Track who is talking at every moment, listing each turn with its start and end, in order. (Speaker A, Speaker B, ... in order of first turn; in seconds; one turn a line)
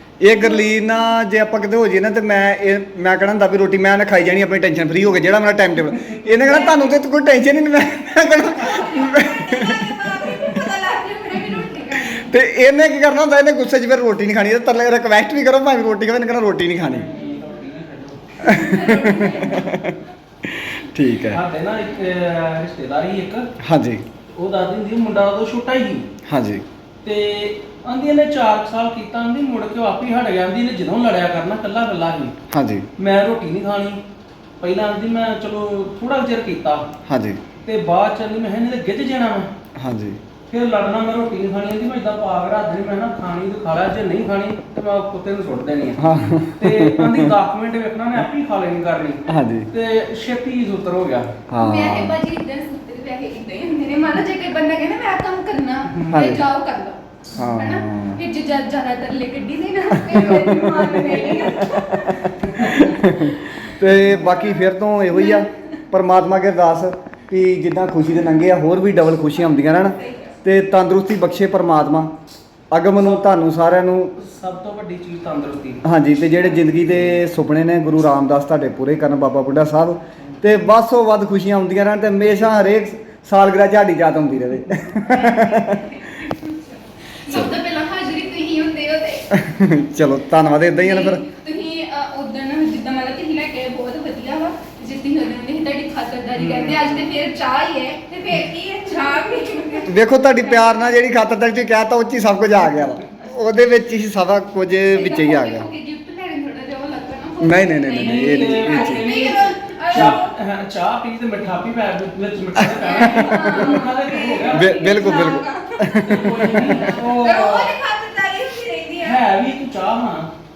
Speaker A: 0.2-9.9
Speaker B: 0.2-0.7
Speaker C: 6.2-6.6
Speaker B: 6.5-7.0
Speaker B: 8.5-12.3
Speaker A: 12.0-17.1
Speaker C: 16.8-18.3
Speaker B: 18.4-19.7
Speaker A: 18.5-21.4
Speaker C: 21.2-23.5
Speaker A: 23.6-24.0
Speaker C: 24.3-26.1
Speaker A: 26.3-26.6
Speaker C: 27.0-32.3
Speaker A: 32.5-32.9
Speaker C: 33.0-34.0
Speaker C: 34.6-36.9
Speaker A: 37.1-37.4
Speaker C: 37.6-39.5
Speaker A: 39.8-40.2
Speaker C: 40.5-51.3
Speaker A: 46.0-47.3
Speaker A: 49.3-49.7
Speaker A: 51.5-52.1
Speaker B: 51.6-65.5
Speaker A: 56.1-56.4
Speaker A: 57.3-58.2
Speaker A: 59.9-60.8
Speaker C: 60.3-61.6
Speaker A: 61.6-72.1
Speaker C: 62.4-62.8
Speaker B: 68.1-68.4
Speaker B: 69.3-70.4
Speaker A: 72.7-74.1
Speaker C: 72.9-73.4
Speaker C: 74.2-75.8
Speaker A: 75.8-85.8
Speaker B: 84.9-89.3
Speaker A: 87.3-87.5
Speaker A: 89.3-91.2
Speaker B: 90.7-101.0
Speaker C: 96.3-97.1
Speaker A: 99.9-105.7
Speaker B: 104.9-110.2
Speaker A: 107.4-109.0
Speaker C: 108.0-115.3
Speaker A: 112.6-113.5
Speaker B: 112.7-119.2
Speaker A: 114.5-116.6
Speaker C: 116.0-117.7
Speaker C: 119.0-120.3